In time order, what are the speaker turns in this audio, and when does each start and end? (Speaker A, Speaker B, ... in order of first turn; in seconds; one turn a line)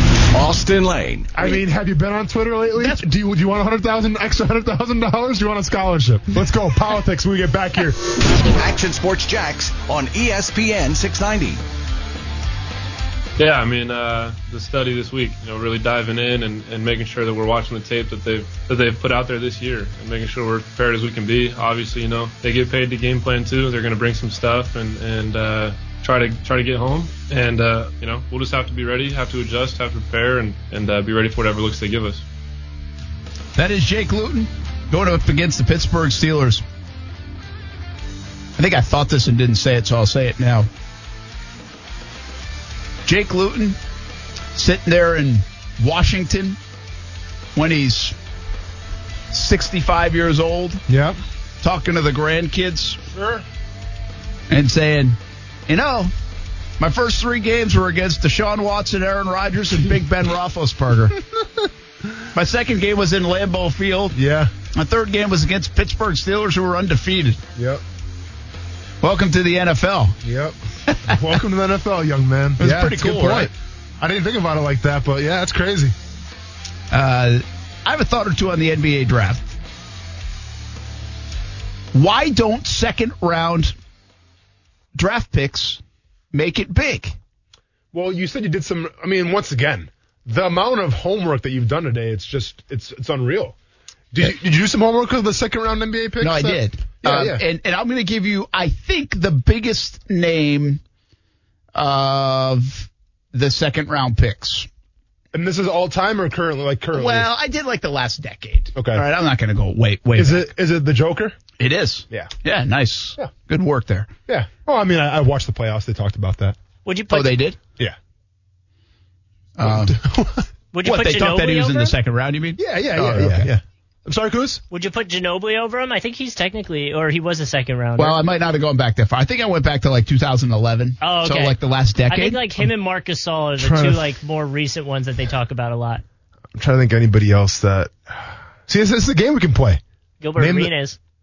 Speaker A: 0.3-1.3
Speaker B: 1.3-8.2
Speaker C: 2.8-3.0
Speaker A: 8.3-11.6
Speaker D: 13.4-32.2
Speaker C: 33.5-36.6
Speaker C: 38.6-40.7
Speaker C: 43.1-43.8
Speaker C: 44.5-46.6
Speaker C: 47.5-48.2
Speaker C: 49.3-50.8
Speaker B: 50.9-51.2
Speaker C: 51.6-53.0
Speaker B: 53.1-53.4
Speaker C: 54.5-56.1
Speaker C: 56.8-61.2
Speaker C: 62.3-64.2
Speaker B: 64.1-64.5
Speaker C: 64.7-67.4
Speaker B: 67.6-67.8
Speaker C: 69.0-70.2
Speaker B: 70.2-76.0
Speaker C: 70.9-71.2
Speaker C: 72.6-73.5
Speaker C: 76.9-79.5
Speaker C: 81.9-83.8
Speaker C: 85.0-85.8
Speaker C: 86.3-87.2
Speaker B: 87.9-93.5
Speaker B: 94.1-97.4
Speaker C: 96.2-100.8
Speaker C: 101.8-104.7
Speaker B: 105.3-107.3
Speaker C: 106.9-110.5
Speaker B: 108.8-109.0
Speaker B: 110.2-111.4
Speaker C: 111.6-114.1
Speaker B: 114.3-116.6
Speaker E: 116.8-117.4
Speaker C: 117.1-117.6
Speaker C: 119.6-120.0
Speaker B: 119.6-120.5
Speaker E: 120.7-122.0
Speaker C: 120.8-123.5
Speaker B: 122.6-124.6
Speaker E: 124.7-128.2
Speaker C: 128.0-132.4
Speaker E: 131.0-131.6
Speaker E: 132.1-136.0
Speaker B: 133.6-134.1
Speaker B: 136.6-139.8
Speaker E: 140.2-141.0
Speaker B: 140.4-140.7